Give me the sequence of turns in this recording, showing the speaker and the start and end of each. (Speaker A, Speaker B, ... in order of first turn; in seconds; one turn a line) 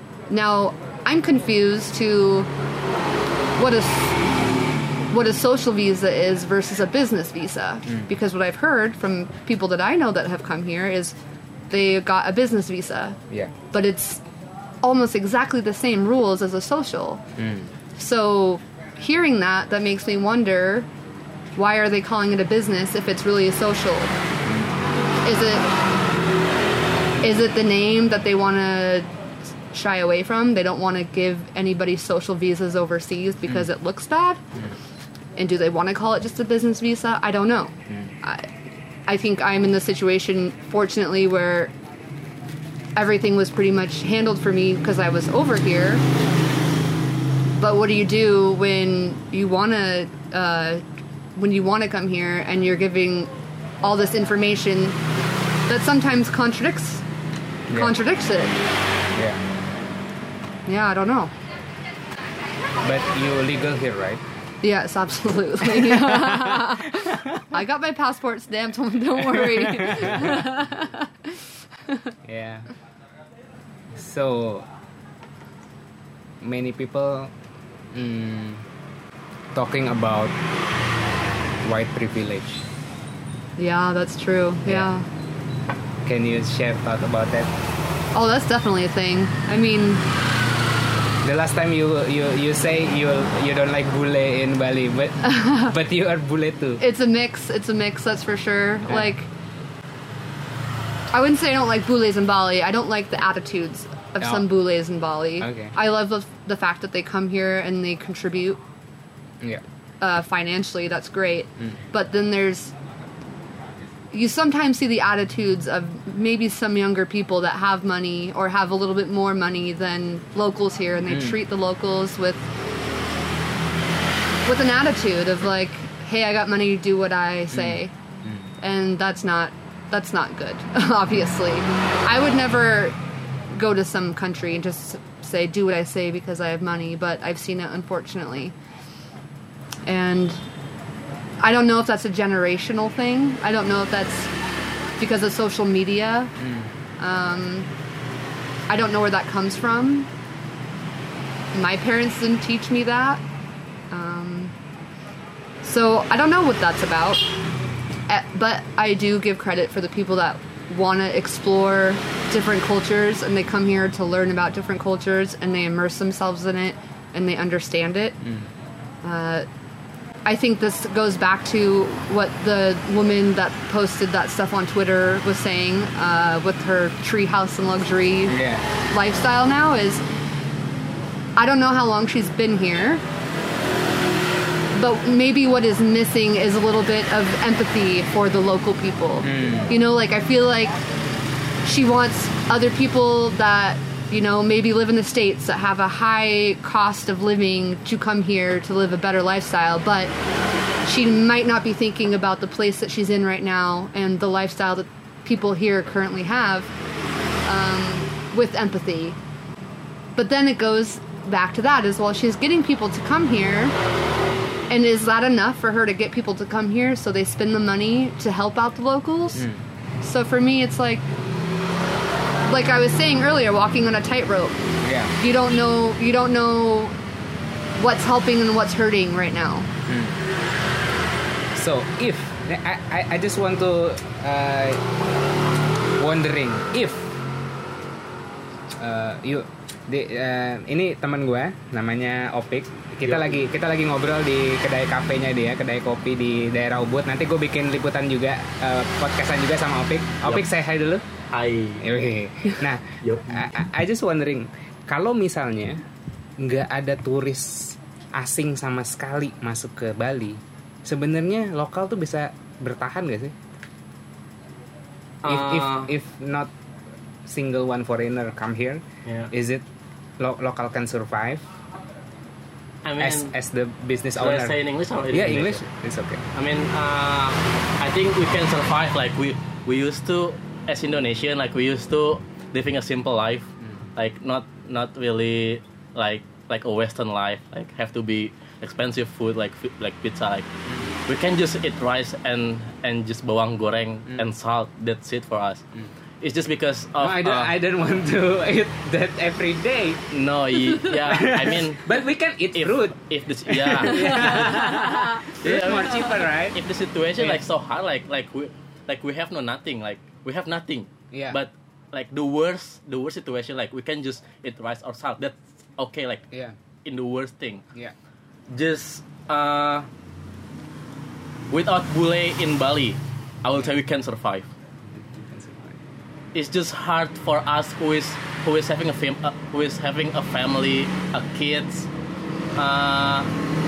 Speaker A: 0.3-2.5
Speaker A: 3.6-4.2
Speaker A: 5.1-11.2
Speaker A: 11.7-13.2
Speaker A: 13.7-14.2
Speaker A: 14.8-17.2
Speaker B: 17.4-17.7
Speaker A: 18.0-20.9
Speaker A: 21.6-24.2
Speaker B: 24.4-24.7
Speaker A: 25.2-25.7
Speaker A: 27.2-29.1
Speaker A: 29.7-34.4
Speaker A: 35.4-38.5
Speaker A: 39.1-41.7
Speaker A: 43.0-46.0
Speaker A: 47.6-50.8
Speaker A: 51.4-55.0
Speaker A: 55.7-57.0
Speaker B: 57.7-58.0
Speaker A: 57.7-58.6
Speaker B: 59.1-59.4
Speaker A: 60.7-61.3
Speaker B: 62.8-64.2
Speaker A: 64.6-72.1
Speaker B: 65.6-67.5
Speaker B: 69.2-70.6
Speaker B: 72.2-72.7
Speaker B: 73.9-74.7
Speaker B: 76.4-77.3
Speaker B: 77.9-78.7
Speaker B: 79.5-80.4
Speaker B: 81.6-82.7
Speaker A: 83.6-85.1
Speaker B: 86.0-87.5
Speaker A: 88.1-90.0
Speaker B: 91.2-96.8
Speaker A: 95.2-95.7
Speaker A: 96.8-99.3
Speaker B: 98.9-99.1
Speaker A: 101.1-108.6
Speaker B: 104.2-104.5
Speaker B: 105.4-105.8
Speaker A: 110.0-112.7
Speaker A: 114.1-122.4
Speaker B: 121.1-121.4
Speaker A: 124.5-127.9
Speaker B: 127.5-128.5
Speaker A: 128.6-133.0
Speaker A: 133.5-138.5
Speaker A: 139.9-140.4
Speaker A: 141.4-144.3
Speaker A: 145.0-146.3
Speaker B: 146.4-146.8
Speaker A: 147.0-147.7
Speaker A: 148.7-150.1
Speaker A: 151.5-153.2
Speaker A: 153.9-154.6
Speaker A: 155.6-157.2
Speaker A: 158.1-168.2
Speaker B: 168.2-168.5
Speaker A: 169.0-169.5
Speaker A: 170.3-180.0
Speaker B: 178.3-178.7
Speaker A: 181.4-183.0
Speaker A: 184.8-190.7
Speaker B: 189.2-189.7
Speaker A: 191.6-200.1
Speaker A: 200.8-206.7
Speaker A: 207.5-209.2
Speaker A: 210.2-213.8
Speaker A: 214.7-219.5
Speaker B: 219.4-219.6
Speaker A: 220.0-221.1
Speaker A: 222.5-224.6
Speaker B: 224.8-225.1
Speaker A: 225.1-227.0
Speaker A: 227.8-229.7
Speaker B: 229.9-230.2
Speaker B: 231.6-234.9
Speaker B: 236.0-237.1
Speaker B: 238.8-251.0
Speaker C: 243.0-243.3
Speaker C: 251.3-251.9
Speaker B: 251.8-255.8
Speaker C: 253.0-253.5
Speaker B: 256.4-263.4
Speaker B: 265.2-266.5
Speaker C: 265.2-265.9
Speaker B: 267.2-269.7
Speaker C: 269.1-269.3
Speaker B: 270.2-271.5
Speaker C: 272.8-273.3
Speaker B: 273.0-274.6
Speaker C: 274.2-275.6
Speaker B: 275.1-276.2
Speaker C: 276.3-290.5
Speaker B: 290.7-290.9
Speaker C: 291.1-295.6
Speaker C: 296.2-297.5
Speaker B: 297.0-300.0
Speaker C: 300.1-301.9
Speaker B: 300.8-302.9
Speaker C: 302.6-316.3
Speaker B: 303.5-306.6
Speaker B: 307.2-307.4
Speaker B: 311.1-311.4
Speaker C: 316.9-317.6
Speaker C: 318.5-319.9
Speaker C: 321.5-324.5
Speaker B: 324.8-325.8
Speaker C: 326.3-331.9
Speaker C: 332.6-333.3